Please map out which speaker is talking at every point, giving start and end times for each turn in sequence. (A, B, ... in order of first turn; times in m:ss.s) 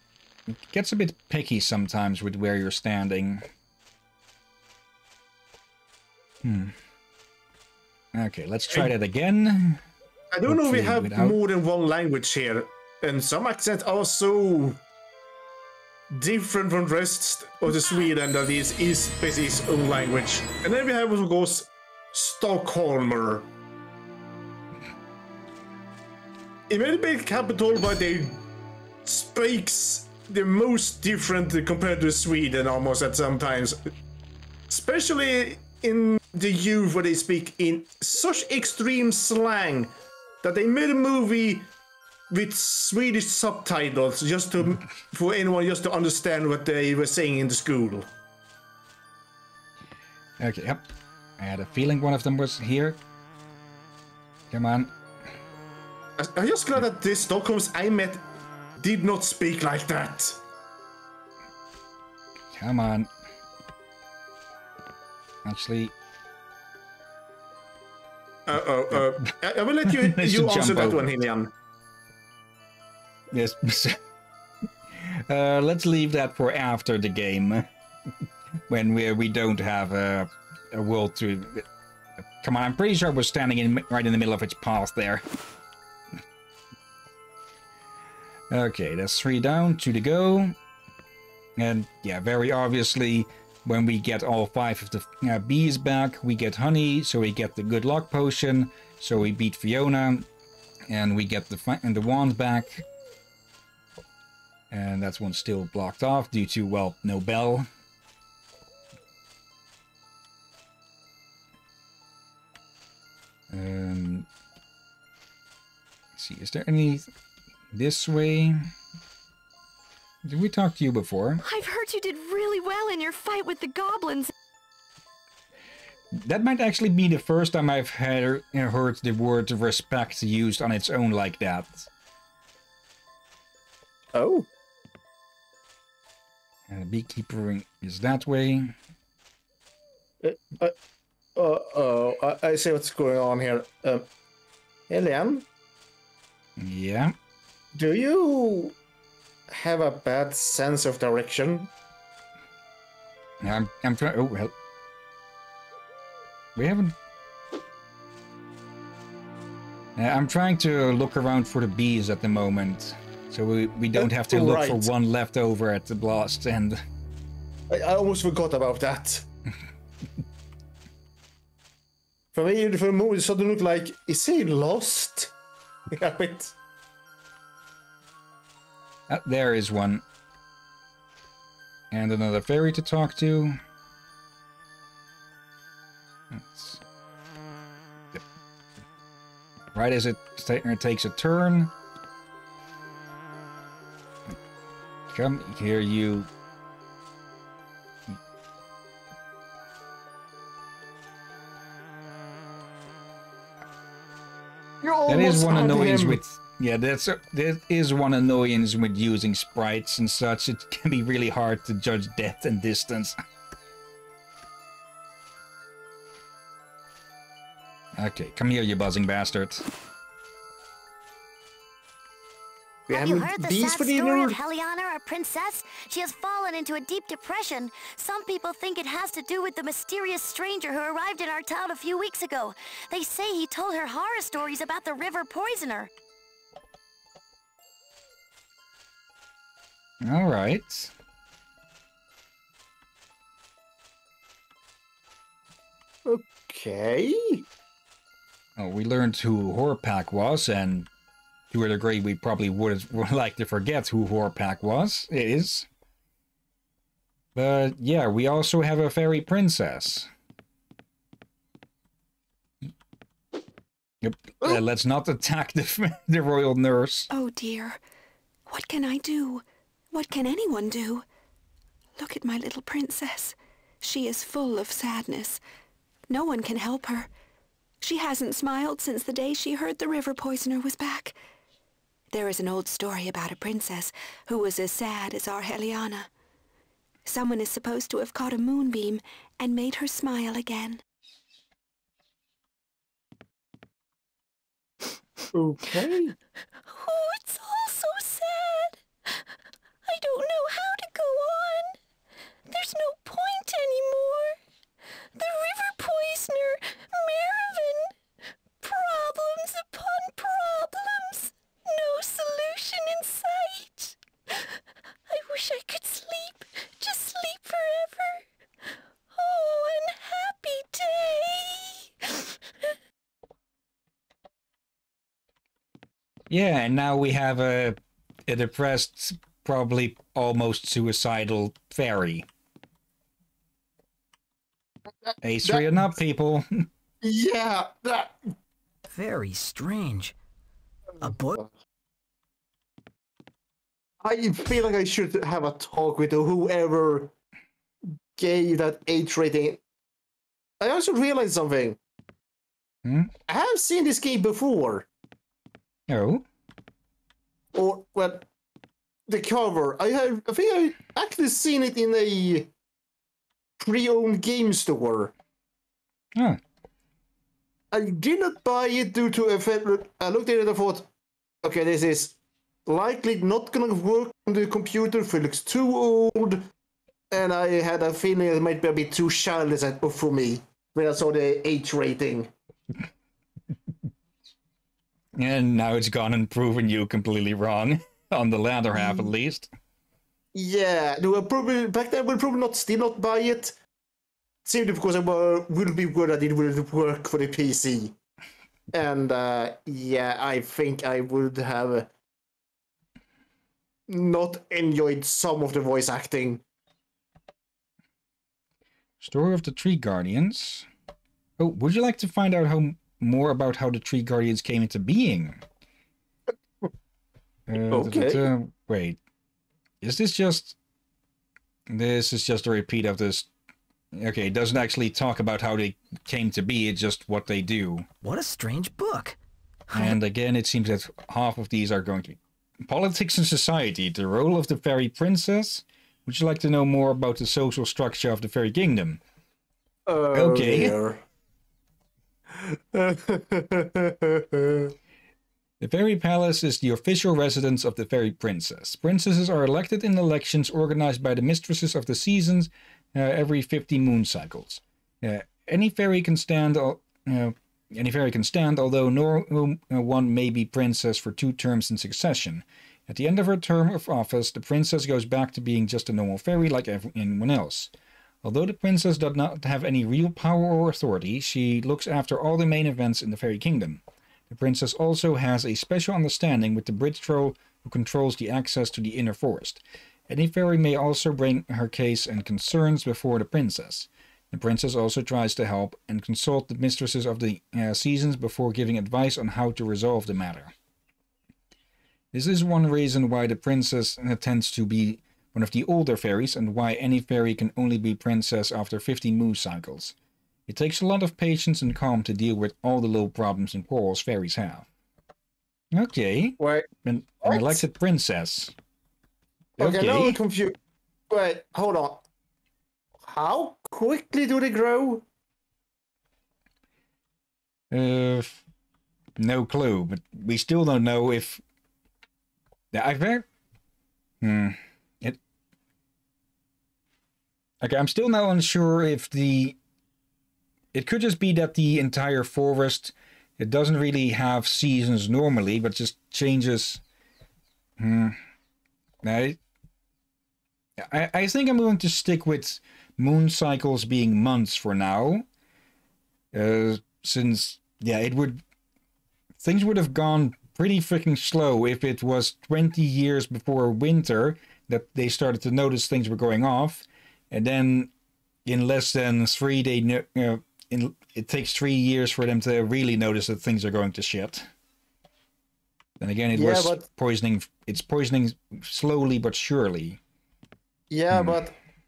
0:00.5-0:03.4 A
0:06.4-0:06.7 A
0:08.1-0:09.8 A
0:10.3-0:14.8 B
0:10.5-0:11.4 A
0:16.1-0:23.5 B
0:26.7-0:28.4 B
0:29.0-0:33.8 B
0:34.7-0:39.9 B
0:40.4-0:41.7 B
0:42.3-0:48.1 B
0:50.4-0:50.8 A
0:51.4-0:53.0 A
0:54.5-0:54.9 A
0:56.2-0:58.2 B
0:58.8-1:00.4 B
1:02.6-1:03.1 A
1:05.4-1:05.9 A
1:08.5-1:11.5 B
1:10.0-1:11.1 A
1:13.3-1:14.0 A
1:15.0-1:17.6 A
1:18.7-1:21.6 A
1:22.4-1:25.2 A
1:28.5-1:30.5 A
1:31.6-1:40.3 A
1:40.9-1:42.8 A
1:44.7-1:47.7 A
1:53.5-1:54.3 A
1:56.2-1:57.1 A
1:57.7-1:58.7 A
2:00.2-2:01.4 A
2:01.4-2:04.3 C
2:06.2-2:11.9 A
2:14.1-2:14.5 B
2:16.7-2:18.7 A
2:20.2-2:20.7 B
2:21.4-2:24.0 B
2:24.9-2:25.4 B
2:26.6-2:27.1 A
2:27.7-2:28.8 B
2:29.5-2:31.7 B
2:33.4-2:34.5 A
2:36.6-2:36.9 A
2:40.0-2:46.8 A
2:43.9-2:44.9 B
2:47.7-2:49.3 B
2:52.3-2:55.3 B
2:55.9-2:56.5 B
2:59.1-3:00.0 A
3:01.9-3:03.6 A
3:06.3-3:06.8 A
3:09.7-3:11.7 A
3:15.1-3:16.3 A
3:24.8-3:26.2 B
3:25.1-3:33.2 A
3:38.0-3:39.6 A
3:42.9-3:44.4 B
3:42.9-3:52.3 D
3:53.0-3:55.3 D
4:00.0-4:00.9 A
4:06.0-4:07.4 B
4:08.6-4:10.9 A
4:11.5-4:15.7 A
4:17.3-4:20.1 A
4:24.0-4:27.1 A
4:27.1-4:27.8 E
4:28.5-4:31.0 E
4:32.0-4:35.4 E
4:36.1-4:37.1 E
4:37.8-4:41.2 E
4:42.1-4:46.1 E
4:47.0-4:50.8 E
4:55.3-4:56.1 B
4:56.7-4:58.8 C
4:59.8-5:01.8 C
5:02.5-5:04.4 C
5:05.2-5:07.9 C
5:08.6-5:14.4 C
5:15.1-5:18.2 C
5:19.1-5:22.3 C
5:26.3-5:32.3 A
5:35.0-5:35.9 B
5:35.2-5:36.6 A
5:37.0-5:38.3 B
5:38.9-5:40.1 F
5:41.0-5:41.4 F
5:41.0-5:41.5 B
5:44.0-5:47.1 B
5:48.2-5:49.6 B
5:50.6-5:51.8 B
5:52.8-5:53.1 A
5:53.3-5:54.9 B
5:55.9-5:56.2 A
5:57.5-5:58.2 B
5:59.1-6:02.5 B
6:03.6-6:05.1 B
6:07.7-6:10.9 B
6:11.4-6:16.4 B
6:17.1-6:22.3 B
6:25.2-6:29.5 A
6:30.3-6:33.5 B
6:34.4-6:37.9 B
6:38.7-6:41.9 B
6:43.9-6:46.4 B
6:49.0-6:50.7 A
6:51.4-6:55.4 A
6:57.5-6:59.0 A
6:57.7-6:58.2 B
6:59.8-7:00.6 A
7:01.7-7:03.3 A
7:03.9-7:07.8 A
7:08.0-7:09.2 F
7:09.7-7:10.0 F
7:09.7-7:19.0 A
7:19.8-7:21.0 B
7:20.1-7:20.8 A
7:22.3-7:24.7 B
7:25.6-7:47.7 A
7:48.2-8:10.5 A
8:12.1-8:20.0 A
8:20.5-8:24.7 A
8:25.7-8:28.5 A
8:26.4-8:26.7 B
8:27.2-8:27.6 B
8:29.6-8:30.2 A
8:29.6-8:30.5 B
8:31.1-8:32.0 B
8:33.0-8:35.0 B
8:37.7-8:38.4 A
8:39.2-8:41.4 A
8:42.7-8:43.2 A
8:44.2-8:45.2 A
8:47.6-8:49.6 A
8:50.7-8:56.8 A
8:57.8-8:58.2 A
8:59.0-8:59.4 A
9:00.8-9:05.2 A
9:06.3-9:08.4 A
9:09.4-9:17.9 A
9:18.4-9:24.5 A
9:26.0-9:30.0 A
9:26.3-9:26.8 B
9:30.9-9:31.5 B
9:31.1-9:31.4 A